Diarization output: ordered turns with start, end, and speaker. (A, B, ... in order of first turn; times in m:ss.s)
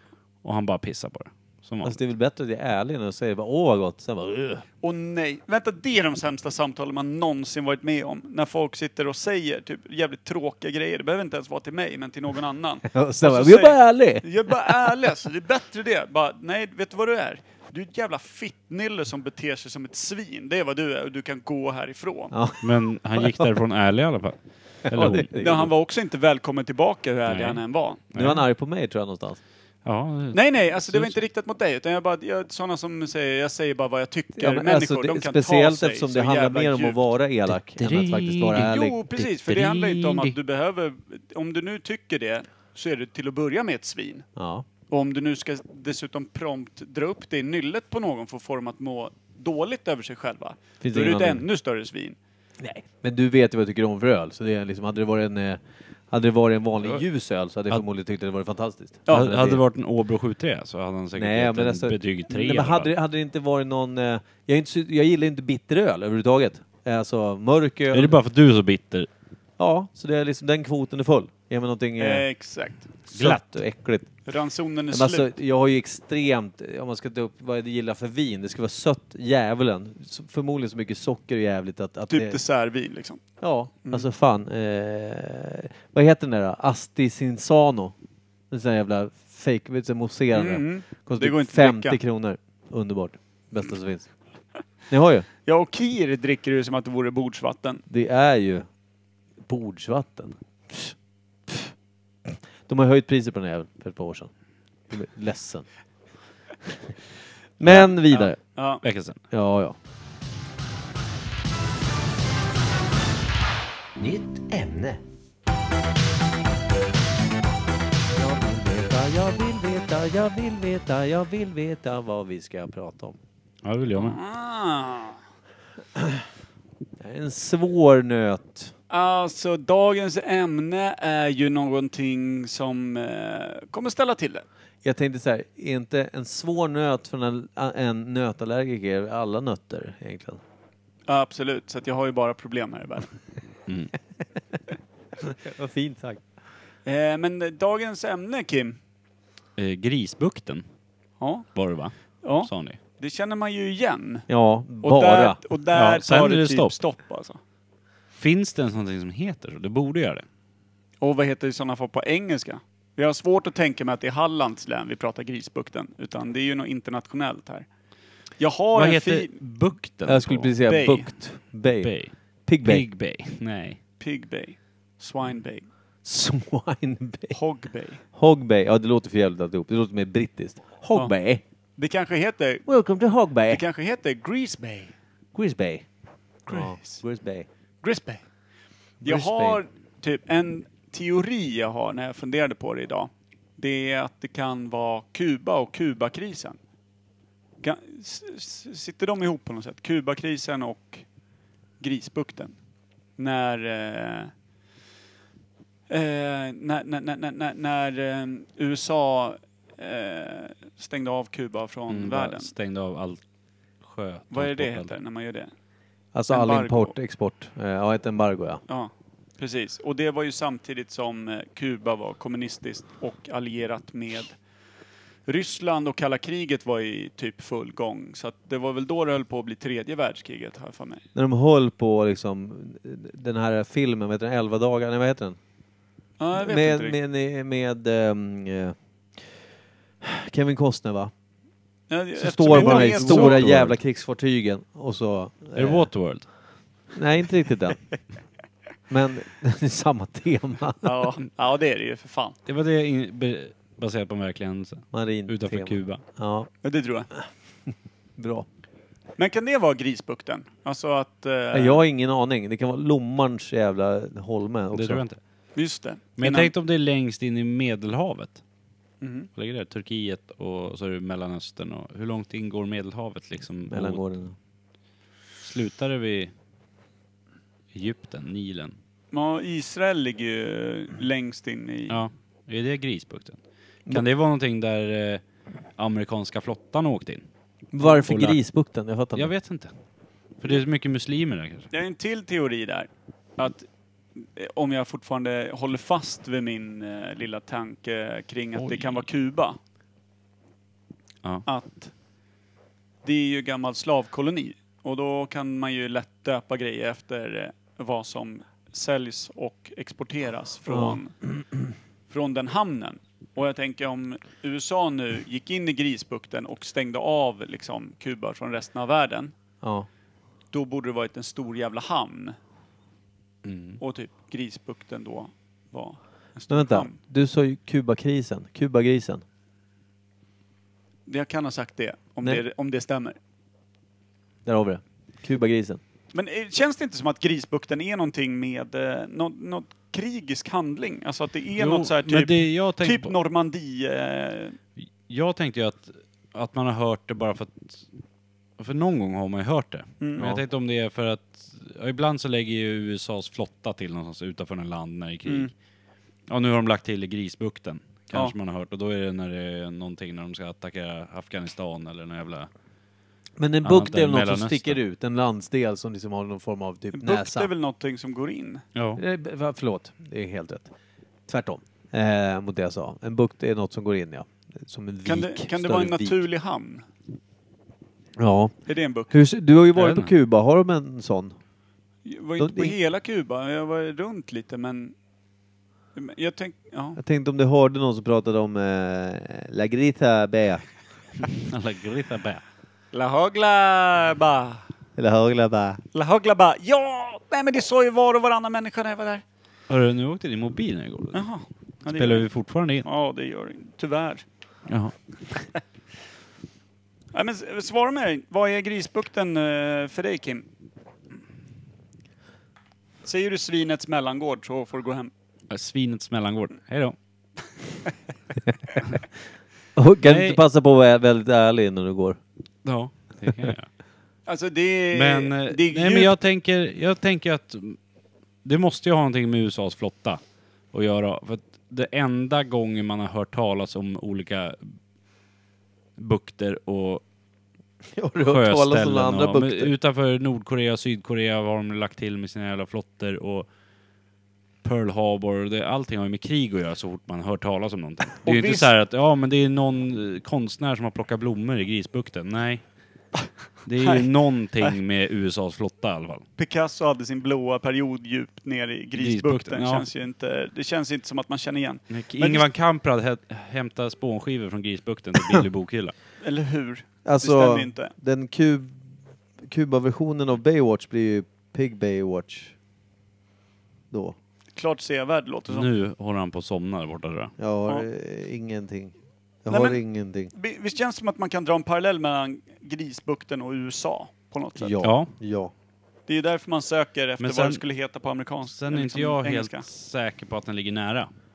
0:00.4-0:02.0 A
0:01.8-0:04.6 B
0:04.8-0:22.3 C
0:12.9-0:14.9 B
0:22.3-0:23.5 B
0:22.6-0:25.3 A
0:24.9-0:25.7 B
0:25.4-0:28.0 C
0:27.3-0:27.6 A
0:28.1-0:28.4 A
0:28.1-0:29.4 B
0:29.8-0:31.2 A
0:30.3-0:37.0 C
0:34.4-0:39.0 B
0:37.8-0:40.4 A
0:38.5-0:44.3 C
0:44.4-0:44.7 B
0:44.9-0:52.2 C
0:50.8-0:51.4 B
0:52.6-0:59.6 B
0:59.1-1:02.9 A
1:01.2-1:08.2 B
1:07.9-1:09.1 A
1:09.6-1:12.3 B
1:12.0-1:12.9 C
1:13.1-1:14.1 B
1:13.1-1:13.6 A
1:14.3-1:15.3 C
1:14.9-1:22.4 B
1:22.1-1:23.2 C
1:23.4-1:27.9 B
1:28.5-1:34.1 B
1:30.3-1:32.0 C
1:34.9-1:35.3 B
1:35.5-1:37.8 C
1:37.9-1:38.7 B
1:39.4-1:41.0 B
1:42.3-1:44.3 B
1:44.9-1:45.7 B
1:47.6-1:48.4 B
1:47.6-1:48.8 C
1:48.8-1:49.2 A
1:49.3-1:49.8 B
1:54.0-1:55.0 B
1:58.1-2:03.2 B
2:03.6-2:04.2 A
2:04.0-2:05.2 C
2:06.0-2:06.2 B
2:07.0-2:08.7 B
2:08.9-2:14.4 C
2:14.8-2:20.4 B
2:21.1-2:23.1 C
2:23.7-2:23.9 A
2:25.2-2:26.2 B
2:26.8-2:28.8 C
2:29.6-2:30.6 A
2:31.2-2:31.5 C
2:31.6-2:32.8 A
2:32.2-2:34.3 C
2:34.3-2:35.4 B
2:34.8-2:37.4 C
2:35.7-2:36.8 A
2:38.2-2:40.3 A
2:41.0-2:47.7 C
2:48.4-2:49.4 C
2:48.8-2:50.5 A
2:50.1-2:51.9 B
2:50.6-2:51.1 C
2:51.8-2:52.1 A
2:52.5-2:52.9 B
2:52.6-2:53.8 A
2:54.0-2:55.7 C
2:56.0-2:57.4 B
2:57.3-2:58.0 C
2:58.2-3:01.4 B
3:01.8-3:02.6 C
3:02.7-3:03.6 B
3:03.5-3:04.9 C
3:05.4-3:05.9 B
3:06.5-3:07.5 B
3:06.5-3:07.0 C
3:07.8-3:08.2 C
3:09.0-3:09.6 B
3:09.0-3:16.6 C
3:17.6-3:21.0 C
3:21.8-3:22.5 C
3:23.2-3:24.3 C
3:25.9-3:32.5 C
3:31.9-3:33.2 A
3:33.8-3:34.9 A
3:34.3-3:35.5 C
3:36.1-3:38.6 B
3:36.3-3:37.0 C
3:38.7-3:44.4 C
3:45.3-3:51.0 C
3:51.2-3:55.4 B
3:56.2-3:57.0 C
3:56.4-3:59.3 B
4:00.0-4:01.1 B
4:01.9-4:03.5 C
4:02.2-4:05.9 B
4:02.4-4:03.8 A
4:05.6-4:06.3 A
4:06.9-4:07.8 B
4:08.9-4:11.1 B
4:10.8-4:12.4 C
4:12.5-4:16.0 A
4:14.9-4:16.5 B
4:16.6-4:17.1 C
4:18.2-4:18.5 B
4:19.2-4:21.8 C
4:21.5-4:25.0 B
4:24.7-4:25.2 A
4:25.6-4:26.5 C
4:26.2-4:28.4 A
4:29.0-4:29.3 C
4:29.4-4:34.0 A
4:33.7-4:34.4 B
4:35.4-4:36.3 A
4:37.7-4:38.8 A
4:39.1-4:42.0 C
4:41.9-4:45.2 A
4:45.8-4:47.2 A
4:47.7-4:49.3 B
4:47.8-4:48.4 A
4:49.2-4:49.7 A
4:50.4-4:51.7 A
4:51.7-4:53.7 C
4:54.2-4:59.6 C
4:58.6-4:59.0 A
5:01.5-5:01.9 C
5:03.0-5:11.1 C
5:10.7-5:11.0 B
5:12.1-5:19.3 C
5:19.6-5:19.9 B
5:20.5-5:22.4 C
5:23.4-5:23.8 A
5:23.8-5:27.0 C
5:26.5-5:29.2 B
5:31.1-5:33.2 C
5:34.4-5:35.8 B
5:36.1-5:44.6 C
5:41.6-5:43.1 A
5:44.8-5:47.8 A
5:48.6-5:55.5 A
5:50.0-5:50.3 C
5:55.3-5:55.5 C
5:56.3-6:02.5 A
6:03.4-6:07.5 B
6:03.6-6:04.8 A
6:06.9-6:08.6 C
6:08.8-6:09.0 A
6:09.0-6:10.7 B
6:11.3-6:16.2 B
6:15.0-6:16.8 C
6:18.2-6:18.6 B
6:18.7-6:19.2 C
6:19.1-6:21.4 B
6:19.8-6:20.1 A
6:22.0-6:24.9 C
6:22.4-6:22.8 B
6:26.0-6:27.0 C
6:27.0-6:30.6 B
6:31.4-6:32.4 A
6:32.9-6:34.6 C
6:35.0-6:35.8 B
6:35.9-6:39.2 C
6:39.7-6:41.3 A
6:41.1-6:42.3 C
6:41.9-6:42.9 A
6:42.8-6:44.2 C
6:44.7-6:44.9 A
6:47.1-6:50.5 C
6:53.0-6:55.1 C
6:55.5-6:57.0 A
6:59.8-7:02.2 B
7:00.0-7:00.4 A
7:02.6-7:03.7 A
7:04.3-7:06.2 C
7:04.9-7:07.8 A
7:08.4-7:10.2 A
7:10.7-7:14.8 A
7:16.0-7:17.0 A
7:17.9-7:19.7 B
7:18.2-7:23.5 A
7:24.6-7:32.6 A
7:28.2-7:28.7 C
7:33.6-7:36.2 A
7:36.4-7:42.5 C
7:39.0-7:39.8 A
7:41.9-7:45.9 A
7:46.2-7:47.9 C
7:47.0-7:48.8 B
7:49.4-7:52.6 B
7:53.9-7:54.2 B
7:54.6-7:55.7 C
7:55.5-7:57.3 A
7:57.4-7:58.9 B
7:59.4-8:00.3 B
7:59.5-7:59.8 C
8:00.3-8:04.8 C
8:04.6-8:05.5 B
8:04.8-8:05.1 A
8:06.1-8:09.7 C
8:07.2-8:07.6 A
8:08.5-8:11.1 A